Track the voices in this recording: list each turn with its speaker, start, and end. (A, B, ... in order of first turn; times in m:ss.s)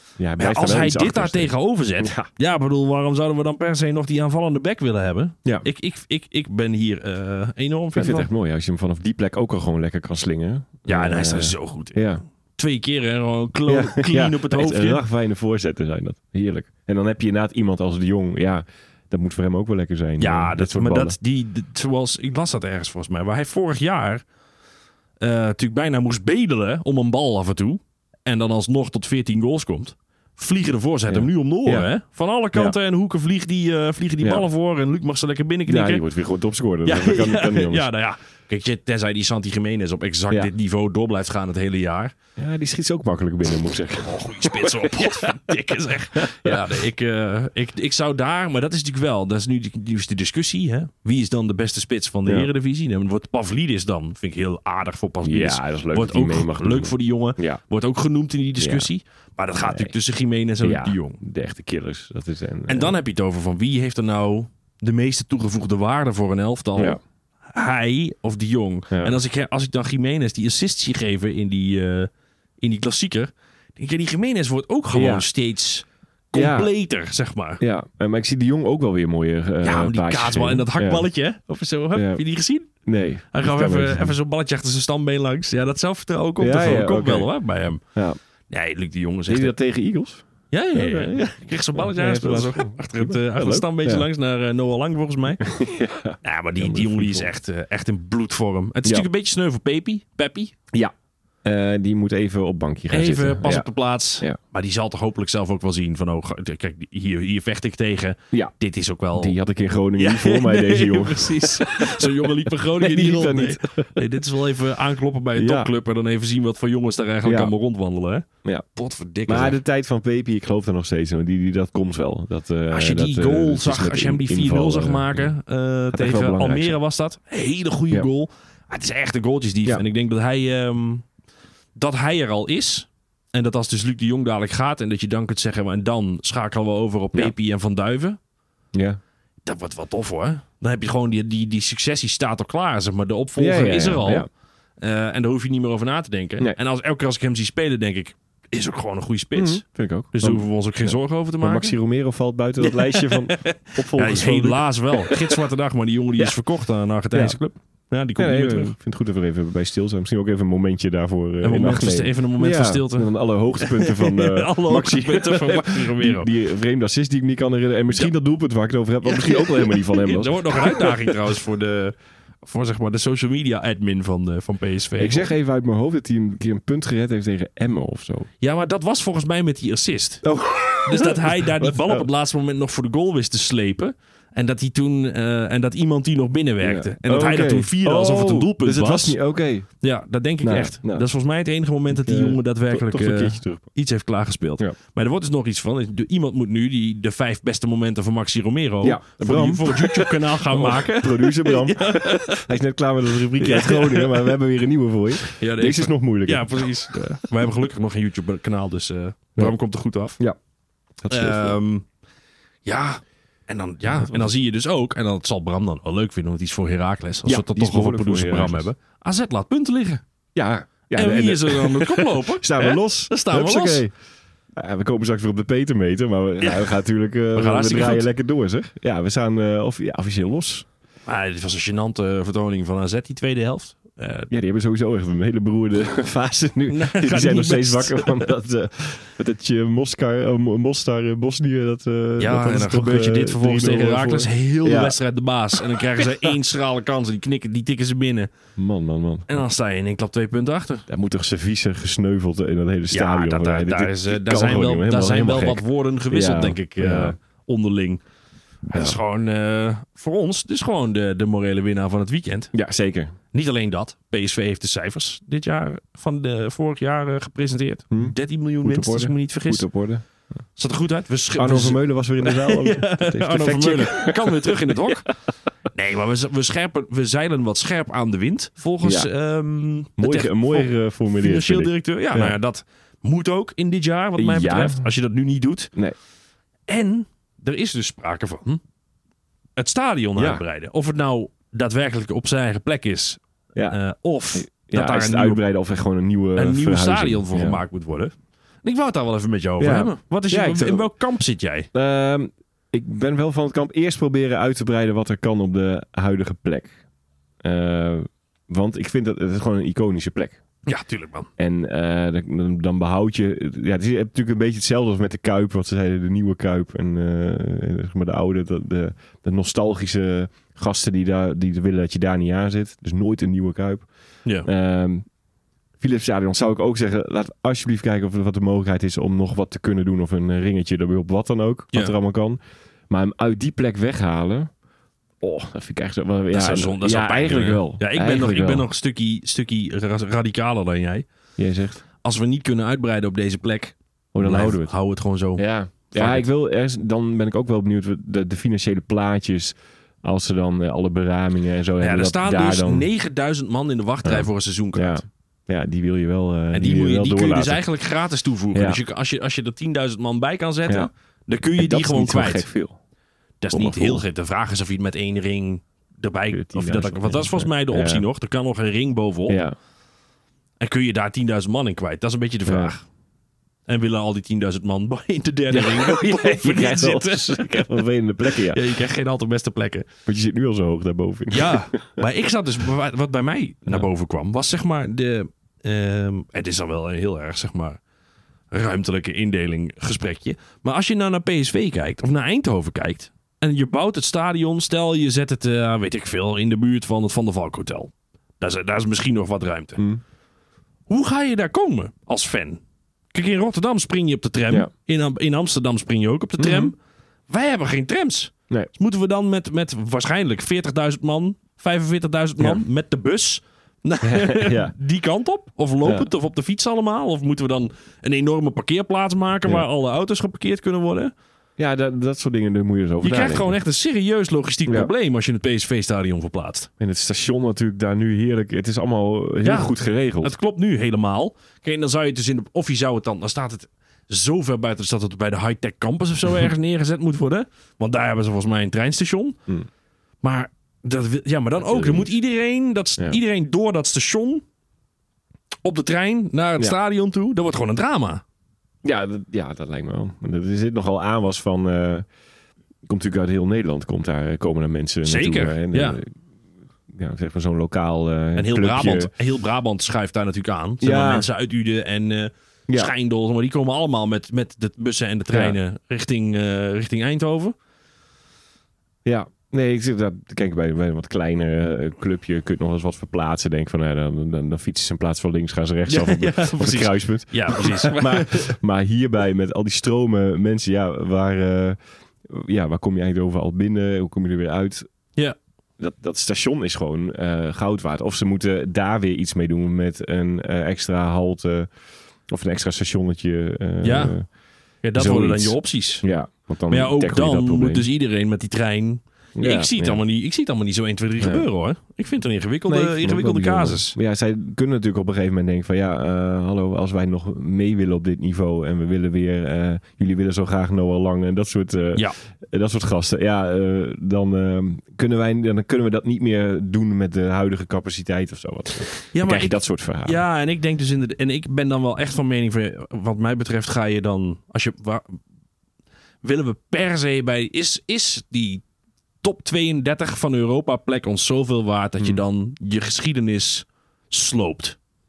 0:00.2-0:02.3 A
0:00.4-0:08.3 B
0:07.9-0:12.2 A
0:10.9-0:12.0 B
0:12.6-0:15.0 B
0:13.7-0:21.2 A
0:20.2-0:24.2 B
0:25.2-0:36.0 B
0:31.1-0:31.9 A
0:35.7-0:37.9 A
0:36.8-0:42.1 B
0:42.4-0:45.5 A
0:44.1-1:01.2 B
0:46.2-0:46.7 A
0:55.2-0:57.6 A
0:58.6-0:58.9 A
0:59.6-0:59.9 A
1:00.6-1:03.0 A
1:02.7-1:07.0 B
1:07.5-1:12.1 B
1:08.9-1:09.2 A
1:12.6-1:17.6 B
1:14.9-1:15.2 A
1:16.3-1:16.7 A
1:17.6-1:21.1 A
1:19.6-1:22.7 B
1:21.9-1:22.2 A
1:22.8-1:24.1 A
1:23.3-1:27.8 B
1:26.4-1:27.3 A
1:28.5-1:29.5 B
1:29.3-1:34.0 A
1:30.5-1:35.4 B
1:35.4-1:37.3 A
1:36.2-1:40.5 B
1:41.4-1:43.7 A
1:42.9-1:49.4 B
1:49.1-1:54.0 A
1:50.0-1:59.6 B
1:55.3-1:55.7 A
1:57.2-1:57.5 A
1:59.3-2:05.3 A
2:02.7-2:11.0 B
2:05.9-2:06.8 A
2:11.7-2:18.2 B
2:18.7-2:19.0 A
2:19.4-2:24.3 B
2:23.4-2:24.3 A
2:24.8-2:29.6 B
2:29.3-2:35.4 A
2:30.1-2:31.8 B
2:32.6-2:38.8 B
2:37.1-2:37.4 A
2:38.2-2:51.2 A
2:41.4-2:46.3 B
2:49.0-2:55.3 B
2:55.0-2:58.3 A
2:58.4-3:00.2 B
3:00.2-3:02.1 A
3:00.8-3:09.2 B
3:06.6-3:09.7 A
3:09.8-3:22.5 B
3:10.4-3:11.0 A
3:11.9-3:13.7 A
3:18.8-3:26.7 A
3:23.4-3:24.3 B
3:25.2-3:30.2 B
3:31.0-3:31.6 A
3:31.1-3:31.8 B
3:32.6-3:40.0 B
3:33.9-3:34.3 A
3:37.2-3:38.7 A
3:40.3-3:43.9 A
3:40.9-3:43.8 B
3:44.5-3:50.6 A
3:46.4-3:46.7 B
3:47.3-3:48.0 B
3:51.0-3:54.3 B
3:54.3-4:05.0 A
3:56.7-3:58.3 B
4:02.2-4:08.3 B
4:05.5-4:06.3 A
4:08.6-4:09.3 A
4:09.3-4:10.8 B
4:10.9-4:17.2 A
4:12.9-4:18.0 B
4:18.7-4:19.0 A
4:18.7-4:22.5 B
4:22.5-4:23.1 A
4:23.3-4:29.6 B
4:27.9-4:30.0 A
4:30.6-4:35.1 B
4:31.4-4:35.0 A
4:35.7-4:45.7 B
4:38.8-4:39.1 A
4:40.0-4:42.4 A
4:44.2-4:44.8 A
4:46.7-4:48.6 B
4:49.6-4:55.4 B
4:50.2-4:50.4 A
4:54.3-4:57.6 A
4:56.4-4:58.1 B
4:58.6-5:01.7 B
4:59.6-5:00.9 A
5:01.7-5:06.8 A
5:07.4-5:10.4 A
5:10.6-5:11.3 B
5:11.4-5:23.9 A
5:24.4-5:25.0 A
5:25.8-5:32.4 A
5:32.9-5:34.5 A
5:35.2-5:38.7 A
5:36.3-5:41.0 B
5:41.4-5:41.8 A
5:42.0-5:46.3 B
5:44.1-5:44.8 A
5:45.3-5:52.9 A
5:51.8-5:55.0 B
5:54.0-5:57.6 A
5:56.5-6:02.5 B
5:58.5-5:58.8 A
6:01.5-6:02.8 A
6:03.4-6:09.4 B
6:03.5-6:04.0 A
6:06.3-6:08.1 A
6:09.3-6:09.5 A
6:10.6-6:12.8 B
6:12.4-6:12.7 A
6:13.7-6:19.9 B
6:15.5-6:18.8 A
6:20.0-6:22.0 A
6:21.3-6:27.8 B
6:28.5-6:39.8 B
6:39.8-6:40.0 A
6:40.9-6:42.6 B
6:43.1-6:46.8 B
6:46.4-6:46.7 A
6:47.3-7:01.1 B
6:54.0-6:54.7 A
6:55.8-6:56.1 A
7:01.6-7:03.6 A
7:03.0-7:06.7 B
7:04.6-7:04.9 A
7:06.8-7:10.3 A
7:09.4-7:19.4 B
7:20.2-7:24.4 B
7:21.6-7:22.1 A
7:25.6-7:28.2 B
7:28.8-7:32.1 A
7:32.8-7:36.1 A
7:35.0-7:36.0 B
7:36.9-7:39.1 A
7:38.4-7:47.5 B
7:40.8-7:41.3 A
7:45.3-7:45.6 A
7:49.0-8:04.9 A
7:55.9-7:58.5 B
8:05.8-8:11.7 A
8:12.3-8:14.2 A
8:13.8-8:14.1 B
8:14.8-8:16.0 B
8:15.0-8:17.8 A
8:16.7-8:23.9 B
8:19.4-8:20.0 A
8:21.2-8:21.4 A
8:22.7-8:40.2 A
8:39.1-8:45.1 B
8:46.2-8:48.6 B
8:49.2-8:54.8 B